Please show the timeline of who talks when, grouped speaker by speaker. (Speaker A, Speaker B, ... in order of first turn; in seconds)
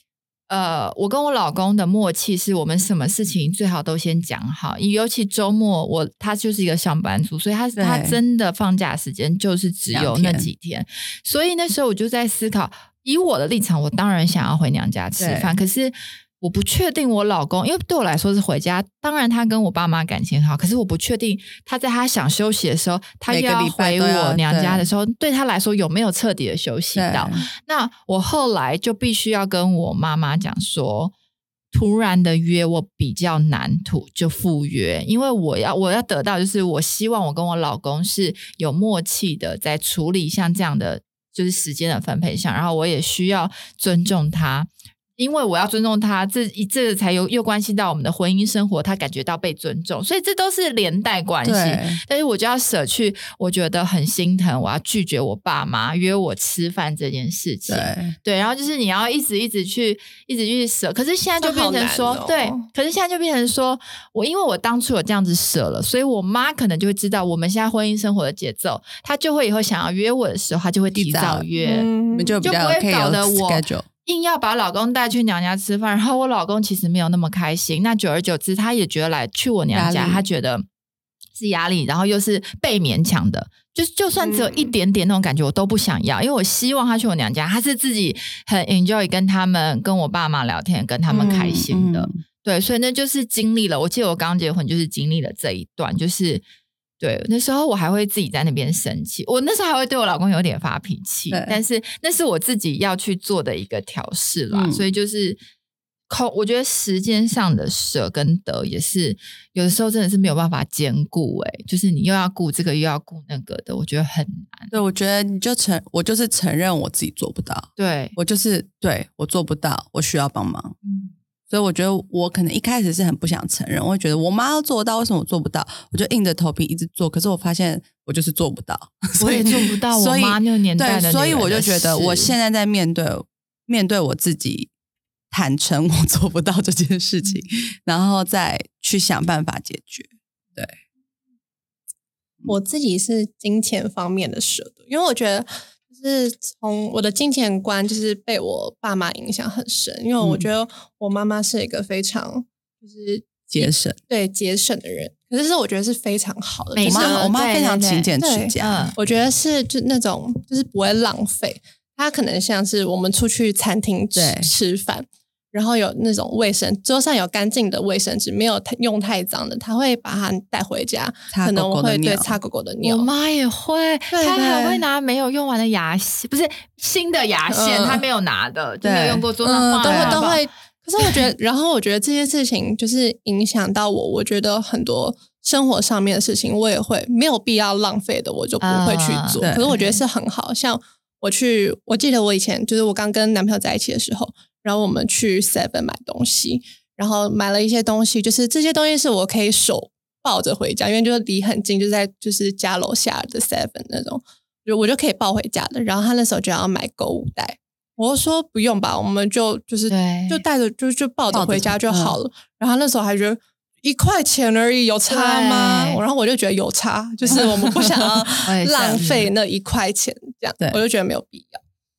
Speaker A: 0.5-31.1, 31.7-71.9, 72.4-80.7, 81.4-96.4, 97.0-105.4, 106.1-114.7, 117.8-118.2, 120.8-121.1, 129.2-132.3, 156.7-159.0, 172.8-180.4, 188.6-190.0, 209.9-210.4, 215.1-216.0, 218.5-219.2
Speaker B: 7.8-8.2, 9.9-10.5, 15.2-15.6, 23.3-24.9, 26.9-27.4, 51.4-52.0, 57.7-58.1, 71.0-71.5, 72.1-73.9, 79.7-80.2, 91.1-92.2, 101.3-101.6, 104.5-104.8, 114.7-120.8, 121.5-134.7, 135.3-140.8, 150.2-150.5, 153.5-154.0, 156.8-158.9, 164.2-164.5, 171.3-172.4, 178.8-180.3, 189.4-189.7, 211.3-212.2, 217.3-218.0
Speaker C: 61.4-62.7, 71.6-72.4, 84.2-84.7, 91.1-91.5, 142.5-157.3, 158.2-173.1, 174.1-174.8, 177.5-178.1, 179.4-221.6